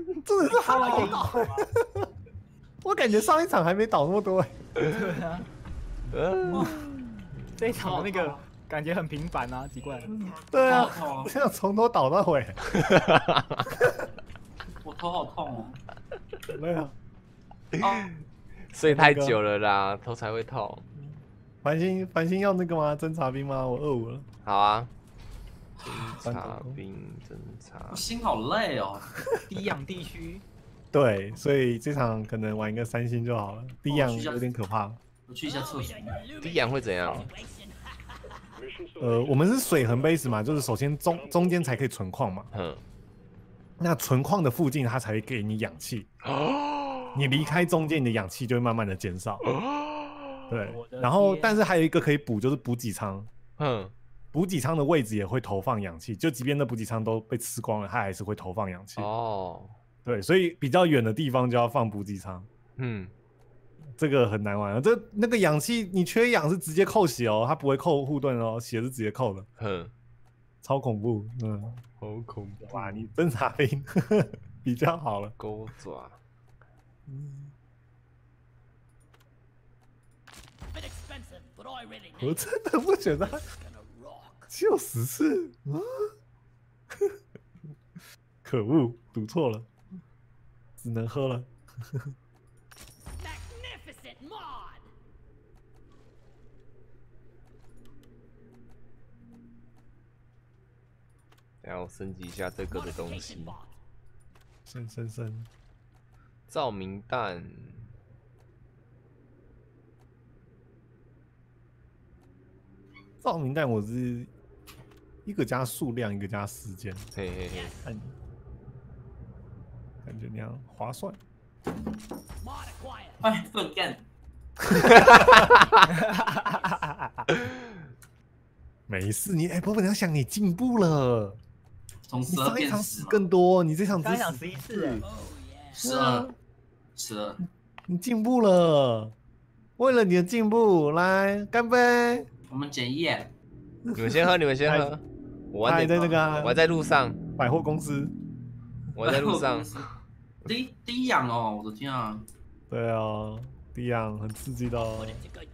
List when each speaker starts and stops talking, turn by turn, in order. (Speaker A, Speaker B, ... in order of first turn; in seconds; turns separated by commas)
Speaker A: 0.2-2.1, Speaker B: 0.7-1.3, Speaker C: 0.7-1.4, Speaker A: 2.8-4.6, Speaker C: 4.8-5.5, Speaker D: 6.1-6.8, Speaker A: 6.5-6.8, Speaker C: 7.6-10.1, Speaker B: 7.8-8.4, Speaker A: 10.3-12.6, Speaker B: 10.7-11.3, Speaker D: 12.7-13.7, Speaker B: 14.8-15.8, Speaker A: 16.5-16.9, Speaker D: 17.7-18.2, Speaker B: 17.8-18.1, Speaker D: 18.7-20.9, Speaker A: 18.9-19.4, Speaker A: 21.0-24.3, Speaker D: 24.4-24.9, Speaker D: 25.8-28.0, Speaker A: 26.1-26.8, Speaker B: 27.9-29.1, Speaker C: 29.5-30.4, Speaker A: 30.9-35.0, Speaker B: 33.9-34.5, Speaker B: 35.3-36.2, Speaker D: 36.4-37.3, Speaker A: 39.0-42.5, Speaker D: 42.5-42.8, Speaker A: 43.8-46.1, Speaker D: 46.2-47.2, Speaker A: 47.1-49.5, Speaker D: 49.5-50.5, Speaker A: 50.5-53.3, Speaker C: 50.7-51.6, Speaker D: 53.6-53.9, Speaker A: 54.3-59.1, Speaker D: 59.0-59.8, Speaker A: 60.0-62.5, Speaker D: 62.8-63.1, Speaker A: 64.0-69.5, Speaker D: 69.6-69.9, Speaker A: 70.6-71.8, Speaker D: 72.0-73.1, Speaker A: 72.7-75.3, Speaker D: 75.4-76.2, Speaker A: 77.1-77.5, Speaker A: 82.1-83.5, Speaker A: 84.5-86.1, Speaker A: 86.9-87.2, Speaker A: 88.4-89.7, Speaker A: 90.8-92.1, Speaker D: 101.6-103.6, Speaker A: 104.7-105.5, Speaker D: 106.5-107.9, Speaker A: 113.2-114.3, Speaker A: 115.2-117.1, Speaker D: 117.2-117.8, Speaker A: 117.8-118.1, Speaker A: 120.0-121.2, Speaker B: 123.2-124.0, Speaker A: 124.6-125.5, Speaker D: 124.8-125.8, Speaker C: 125.9-127.3, Speaker A: 128.9-131.4, Speaker B: 132.1-133.2, Speaker A: 132.3-135.0, Speaker C: 133.9-135.0, Speaker A: 135.8-136.3, Speaker B: 135.8-136.3, Speaker B: 137.0-137.4, Speaker A: 137.9-139.1, Speaker A: 139.8-142.3, Speaker B: 142.5-143.3, Speaker D: 143.9-147.2, Speaker A: 144.7-144.9, Speaker A: 145.7-146.6, Speaker A: 147.4-148.1, Speaker D: 148.9-149.9, Speaker B: 149.0-149.9, Speaker B: 150.4-152.3, Speaker A: 152.7-155.2